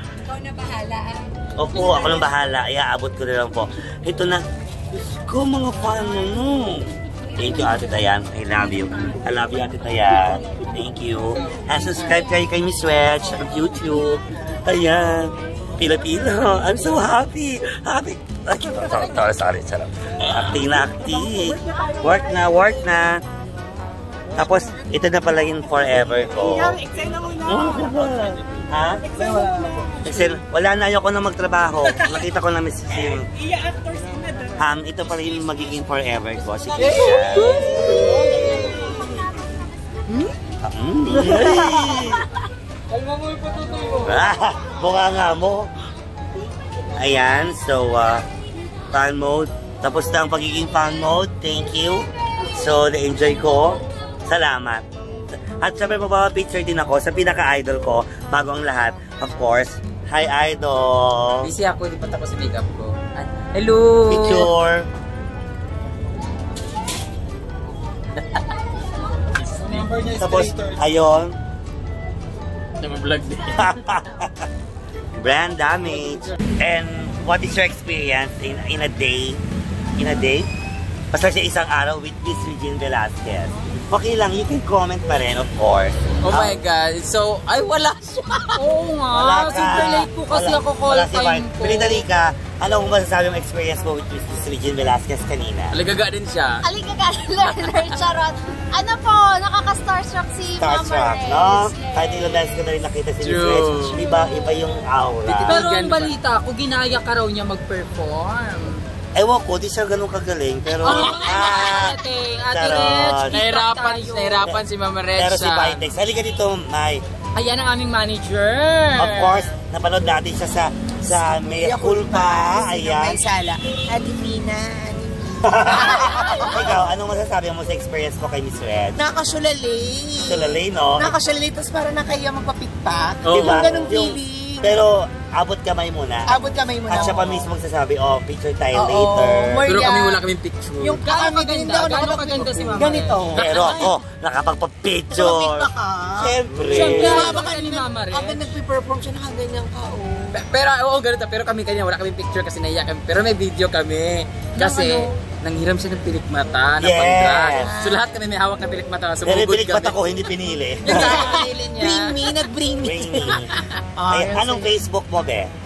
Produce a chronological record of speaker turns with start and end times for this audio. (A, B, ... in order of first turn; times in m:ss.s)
0:01.6-0:23.2 A
0:24.4-0:26.8 A
0:26.7-0:27.4 B
0:27.4-0:29.1 A
0:29.1-0:30.0 B
0:30.0-0:33.3 A
0:34.6-0:38.9 A
0:37.5-0:38.3 C
0:40.6-0:42.3 A
0:43.9-0:45.7 A
0:47.0-0:48.2 A
0:48.9-0:54.8 A
0:55.6-1:01.5 A
1:01.4-1:04.5 D
1:04.1-1:04.9 A
1:09.9-1:11.4 A
1:12.8-1:13.7 D
1:13.5-1:14.5 A
1:15.1-1:19.4 A
1:20.0-1:20.5 A
1:21.1-1:26.6 A
1:26.2-1:28.6 D
1:28.6-1:32.1 C
1:29.1-1:35.8 A
1:35.7-1:36.6 D
1:36.6-1:42.2 E
1:40.6-1:45.6 A
1:43.2-1:44.0 D
1:45.3-1:46.2 D
1:45.5-1:48.8 C
1:49.2-1:53.4 A
1:50.8-1:54.5 C
1:53.3-1:56.0 D
1:55.1-1:57.0 A
1:57.4-1:59.5 C
1:58.9-2:03.2 A
2:01.1-2:06.8 B
2:05.4-2:09.1 A
2:09.0-2:14.7 B
2:10.2-2:11.2 A
2:13.2-2:13.9 D
2:13.3-2:19.8 A
2:16.3-2:17.5 B
2:18.7-2:20.2 B
2:19.7-2:21.0 D
2:20.8-2:23.9 B
2:21.0-2:23.3 C
2:23.4-2:27.2 A
2:25.1-2:30.4 B
2:26.7-2:28.4 C
2:30.3-2:40.0 D
2:34.6-2:35.1 C
2:36.8-2:37.8 A
2:37.5-2:38.0 B
2:39.2-2:41.0 A
2:40.8-2:42.4 D
2:40.9-2:43.4 B
2:41.0-2:41.5 C
2:42.8-2:43.5 A
2:44.0-2:44.7 B
2:44.1-2:45.5 A